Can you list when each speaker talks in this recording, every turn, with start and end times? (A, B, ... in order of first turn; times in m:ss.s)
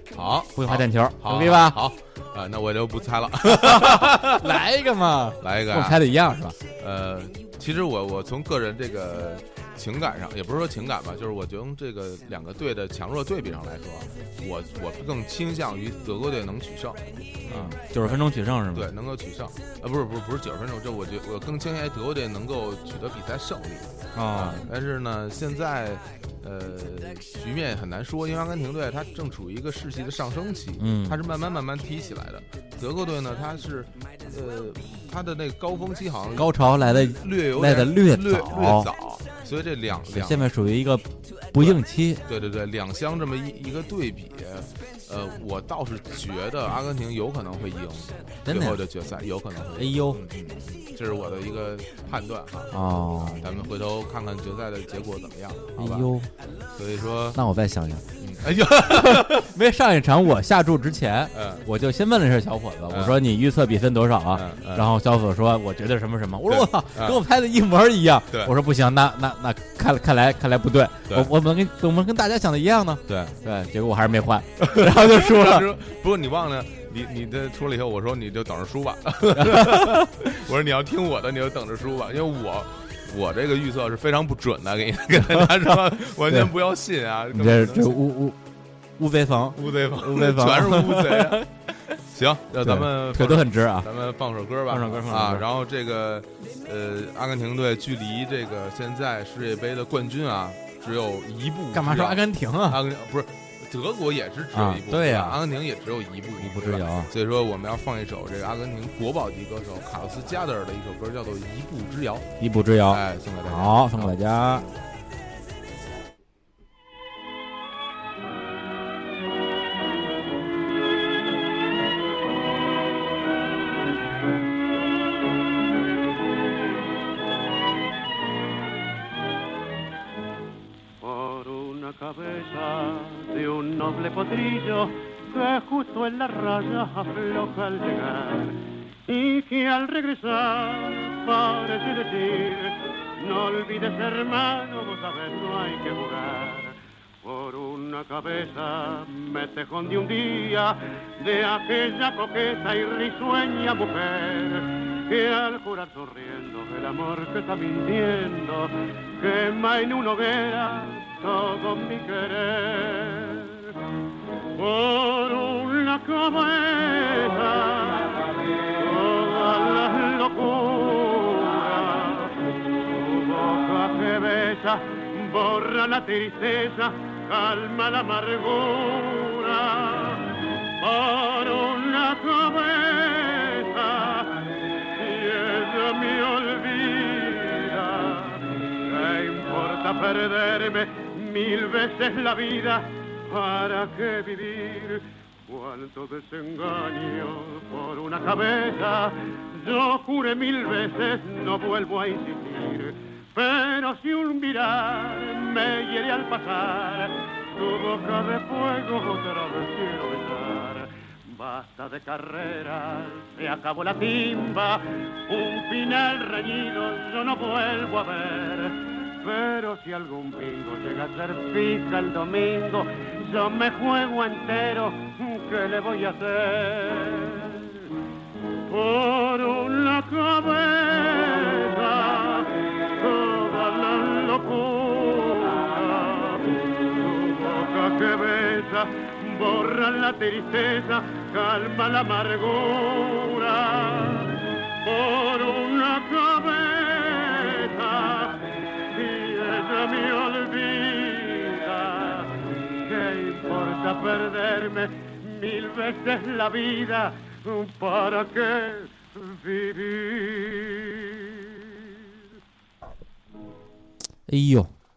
0:00.1-0:04.6 A
0:00.6-0:01.8 B
0:03.4-0:06.6 B
0:05.4-0:06.0 A
0:06.8-0:40.5 A
0:17.5-0:18.9 B
0:24.1-0:24.7 B
0:30.8-0:31.2 B
0:36.4-0:38.9 B
0:40.1-0:42.2 B
0:41.6-0:56.1 A
0:48.4-0:48.8 B
0:49.8-0:50.2 B
0:52.7-0:53.5 B
0:55.8-0:56.3 B
0:56.8-0:57.4 A
0:57.4-1:15.7 B
0:58.2-0:59.5 A
1:01.3-1:01.7 A
1:02.9-1:03.2 A
1:04.3-1:04.9 A
1:06.5-1:07.2 A
1:13.1-1:13.4 A
1:14.6-1:28.0 A
1:19.4-1:20.2 B
1:25.3-1:26.5 B
1:27.3-1:28.4 B
1:29.0-1:31.5 B
1:29.6-1:31.4 A
1:32.0-1:52.3 A
1:32.6-1:33.9 B
1:34.7-1:35.5 B
1:41.7-1:42.8 B
1:44.5-1:45.4 B
1:46.4-1:47.1 B
1:52.4-1:54.7 B
1:52.9-1:54.2 A
2:11.0-2:43.8 C
2:44.6-3:47.9 C
3:48.7-4:21.9 C
4:24.3-4:24.7 B